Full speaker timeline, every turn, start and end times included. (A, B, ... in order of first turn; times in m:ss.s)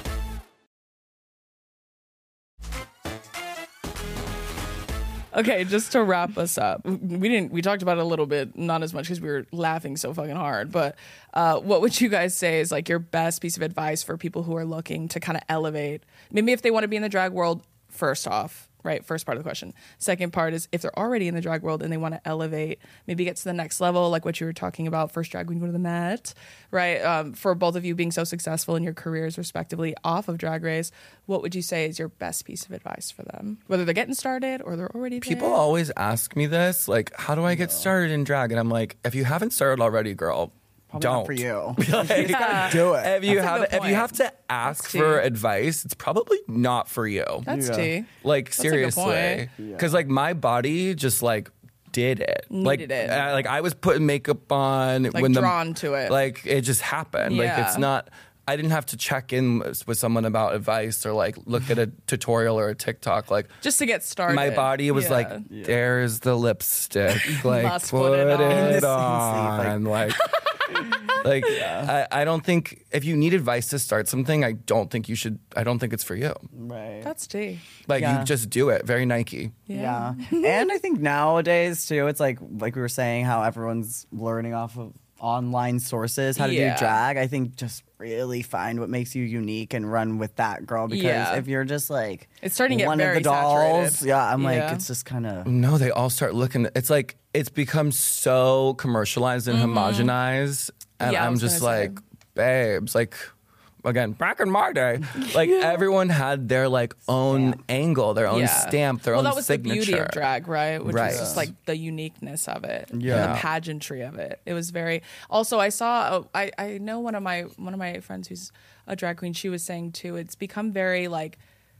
0:05.3-0:35.6 A
0:35.2-0:47.5 B
0:37.5-0:37.9 C
0:40.9-0:43.4 C
0:42.0-0:44.1 A
0:44.6-0:45.2 A
0:47.4-0:49.5 A
0:47.5-0:47.9 C
0:48.2-1:03.6 B
0:49.6-0:50.0 C
0:52.5-0:53.3 A
0:55.1-0:56.1 A
0:57.2-0:57.9 A
1:03.6-1:05.5 A
1:04.3-1:16.4 B
1:05.5-1:05.8 C
1:07.2-1:08.9 A
1:08.5-1:09.8 C
1:10.9-1:11.9 C
1:16.5-1:17.1 C
1:17.0-1:17.6 A
1:17.8-1:19.6 B
1:17.9-1:18.3 C
1:19.7-1:20.6 A
1:19.7-1:35.5 C
1:26.4-1:27.0 A
1:30.9-1:31.4 A
1:32.4-1:34.8 A
1:35.4-1:43.3 B
1:39.5-1:40.1 A
1:41.0-1:42.0 A
1:43.8-1:50.2 B
1:45.1-1:45.9 A
1:47.3-1:47.6 C
1:48.3-2:01.4 A
1:50.8-1:51.5 B
1:50.9-1:51.5 C
1:52.9-1:53.4 C
1:53.0-1:53.5 B